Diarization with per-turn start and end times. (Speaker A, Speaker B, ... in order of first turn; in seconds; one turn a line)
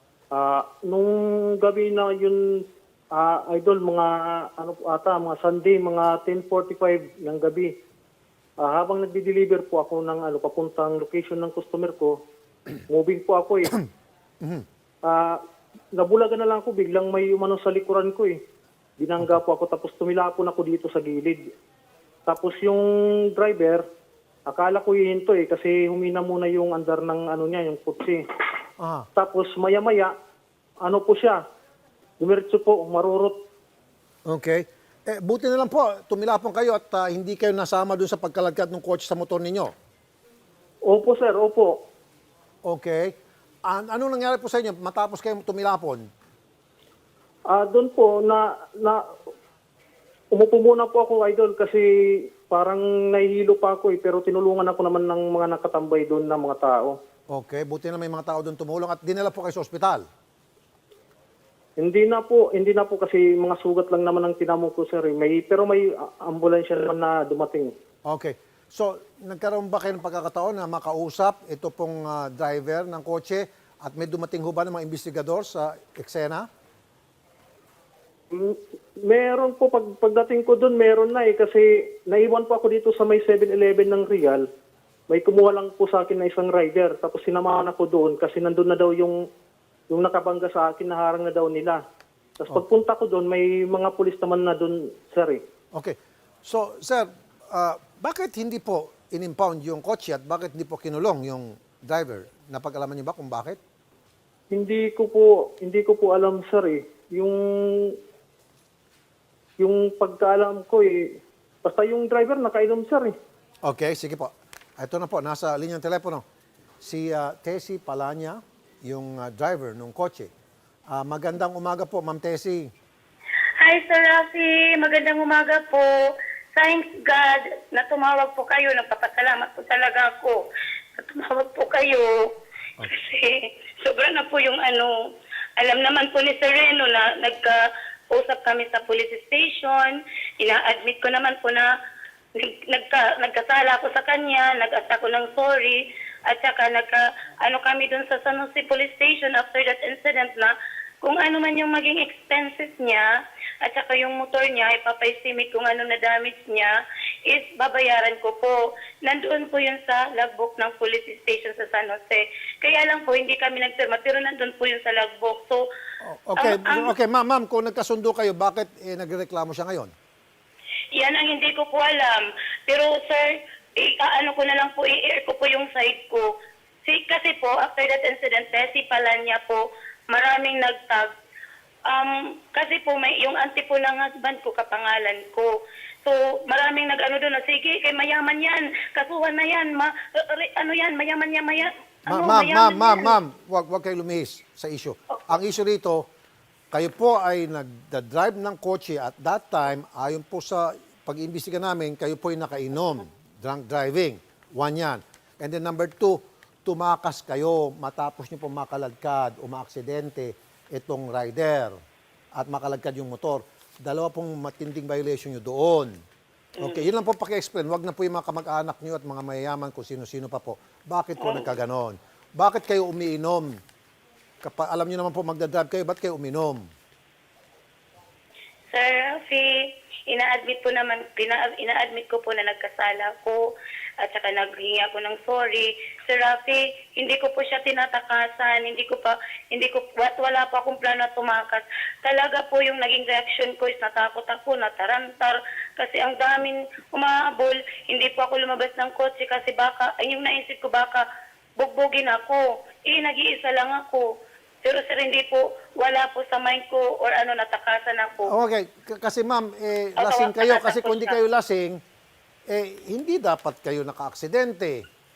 Speaker A: 0.3-2.6
Speaker A: 3.1-7.7
Speaker A: 8.6-12.2
Speaker A: 12.9-13.8
Speaker A: 15.1-15.4
Speaker A: 15.9-18.4
Speaker A: 19.0-21.5
Speaker A: 22.3-23.8
Speaker A: 24.5-28.2
Speaker B: 28.8-29.1
Speaker A: 29.2-30.1
Speaker A: 30.8-31.4
Speaker A: 32.2-33.4
Speaker B: 34.3-39.7
Speaker A: 40.9-41.8
Speaker B: 42.6-43.1
Speaker B: 43.7-46.1
Speaker A: 47.5-49.0
Speaker A: 50.3-57.0
Speaker B: 57.3-60.0
Speaker A: 61.8-67.7
Speaker B: 68.1-76.5
Speaker A: 78.3-84.5
Speaker A: 85.1-89.2
Speaker A: 89.9-91.8
Speaker A: 92.4-95.4
Speaker B: 95.7-103.6
Speaker A: 104.5-108.0
Speaker A: 109.6-113.1
Speaker B: 113.6-116.2
Speaker B: 116.8-120.3
Speaker B: 120.9-122.7
Speaker C: 123.6-130.4
Speaker C: 131.0-141.7
Speaker C: 142.3-156.8
Speaker C: 157.3-165.6
Speaker B: 166.0-169.9
Speaker C: 166.4-166.9
Speaker C: 170.9-176.3
Speaker C: 176.8-181.1
Speaker C: 181.9-185.5
Speaker C: 186.0-193.2
Speaker B: 192.1-196.1
Speaker B: 196.7-211.8
Speaker B: 212.3-215.9
Speaker C: 216.6-216.9
Speaker B: 216.6-223.6
Speaker C: 221.2-221.5
Speaker B: 224.4-226.7
Speaker C: 228.7-233.4
Speaker C: 234.0-251.1
Speaker C: 251.6-254.1
Speaker C: 254.6-258.3
Speaker B: 258.3-261.8
Speaker C: 260.0-261.2
Speaker B: 262.5-264.8